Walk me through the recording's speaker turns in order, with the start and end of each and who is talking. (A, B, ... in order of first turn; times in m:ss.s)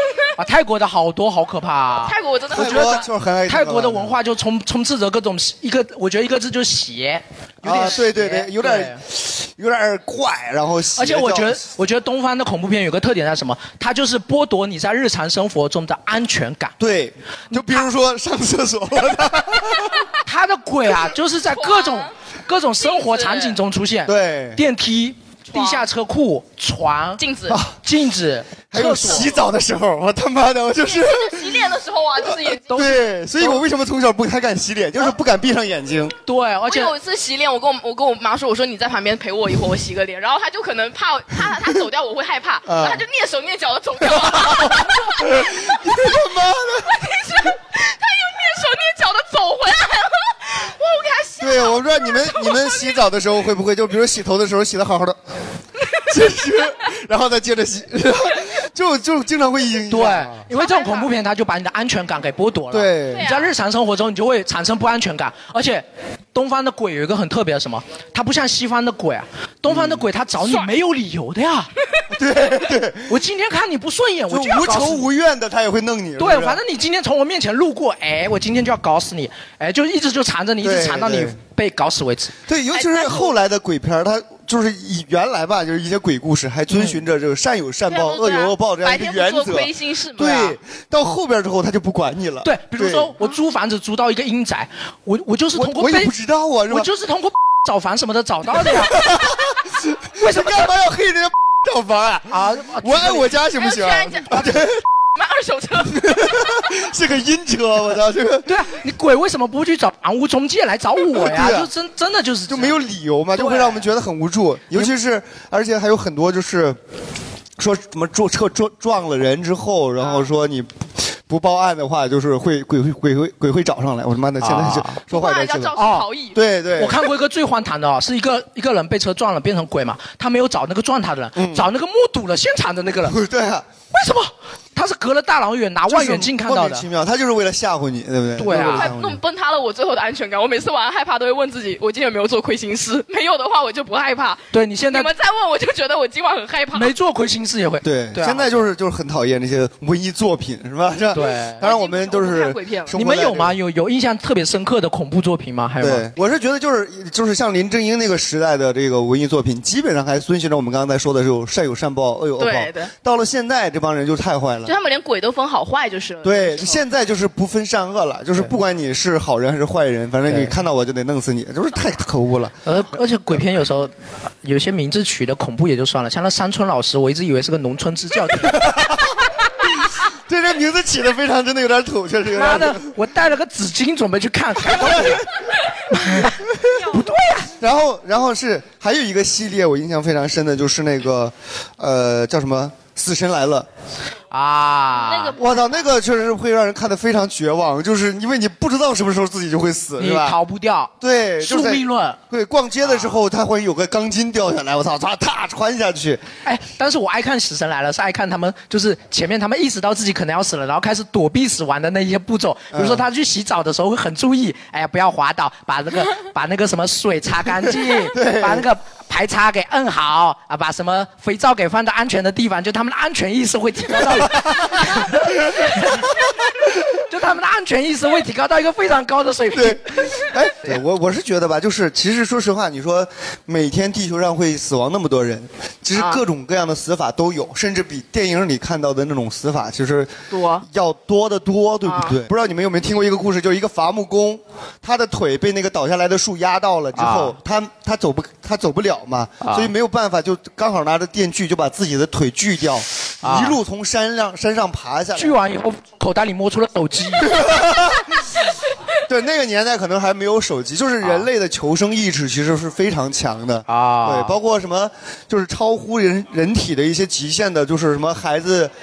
0:00.4-0:03.0 A
0:02.0-0:03.1 B
0:02.5-0:04.2 C
0:03.5-0:09.0 A
0:07.6-0:11.6 C
0:11.0-0:16.7 A
0:16.8-0:20.0 C
0:20.2-0:27.2 A
0:21.5-0:22.1 B
0:22.8-0:23.6 B
0:24.1-0:24.6 C
0:25.5-0:25.9 B
0:27.2-0:27.6 B
0:27.5-0:27.8 C
0:27.8-0:29.3 A
0:28.7-0:31.7 C
0:30.9-0:32.9 B
0:32.7-0:36.2 C
0:32.7-0:33.6 A
0:36.3-0:36.9 A
0:36.7-0:46.2 B
0:42.7-0:43.0 C
0:44.0-0:47.1 C
0:46.9-0:53.0 B
0:51.4-0:55.2 C
0:56.1-1:00.4 C
0:59.9-1:11.7 A
1:00.5-1:01.1 B
1:02.7-1:03.3 C
1:03.1-1:03.5 B
1:09.7-1:10.0 C
1:10.4-1:10.7 B
1:12.1-1:13.2 C
1:13.1-1:15.1 A
1:14.3-1:16.6 C
1:16.2-1:22.3 A
1:20.6-1:21.4 C
1:22.5-1:33.1 C
1:22.7-1:23.3 B
1:26.7-1:27.0 A
1:27.9-1:30.6 B
1:32.4-1:36.1 A
1:35.5-1:36.9 C
1:36.7-1:39.0 A
1:38.7-1:44.8 C
1:40.2-1:40.6 A
1:42.3-1:43.3 A
1:43.6-1:44.6 B
1:45.2-1:46.6 B
1:45.9-1:48.6 C
1:48.5-1:52.8 A
1:51.1-1:51.7 C
1:52.5-1:56.8 C
1:57.6-2:05.8 C
2:00.0-2:00.3 B
2:04.4-2:05.0 A
2:05.1-2:06.4 B
2:05.8-2:06.0 A
2:06.4-2:07.0 C
2:06.8-2:13.2 A
2:11.4-2:11.7 C
2:13.0-2:13.7 C
2:13.9-2:16.9 A
2:15.9-2:19.2 C
2:18.4-2:18.9 A
2:18.5-2:26.9 B
2:24.5-2:25.1 A
2:26.7-2:28.6 A
2:27.8-2:33.6 C
2:31.2-2:31.6 A
2:31.2-2:32.9 B
2:32.9-2:36.1 A
2:35.8-2:44.8 C
2:42.4-2:42.9 B
2:44.6-2:46.8 B
2:46.2-2:52.6 C
2:50.3-2:50.6 A
2:52.6-2:53.9 A
2:54.4-2:58.7 A
2:58.5-2:59.2 C
2:59.8-3:02.9 C
3:02.4-3:05.3 A
3:04.7-3:05.2 C
3:05.9-3:07.5 A
3:07.6-3:13.7 C
3:14.3-3:15.4 A
3:15.0-3:15.7 B
3:15.4-3:20.4 C
3:20.0-3:22.2 A
3:21.0-3:26.2 C
3:22.8-3:23.2 A
3:26.4-3:46.2 A
3:32.7-3:33.0 C
3:38.1-3:38.6 C
3:44.2-3:44.6 C
3:47.1-3:50.3 A
3:49.5-4:15.4 C
3:56.0-3:56.2 B
4:00.3-4:00.6 B
4:01.8-4:02.2 B
4:07.0-4:07.4 A
4:09.4-4:09.7 A
4:13.2-4:13.6 A
4:15.2-4:17.4 A
4:17.2-4:18.3 C
4:19.1-4:28.7 C
4:23.7-4:24.4 A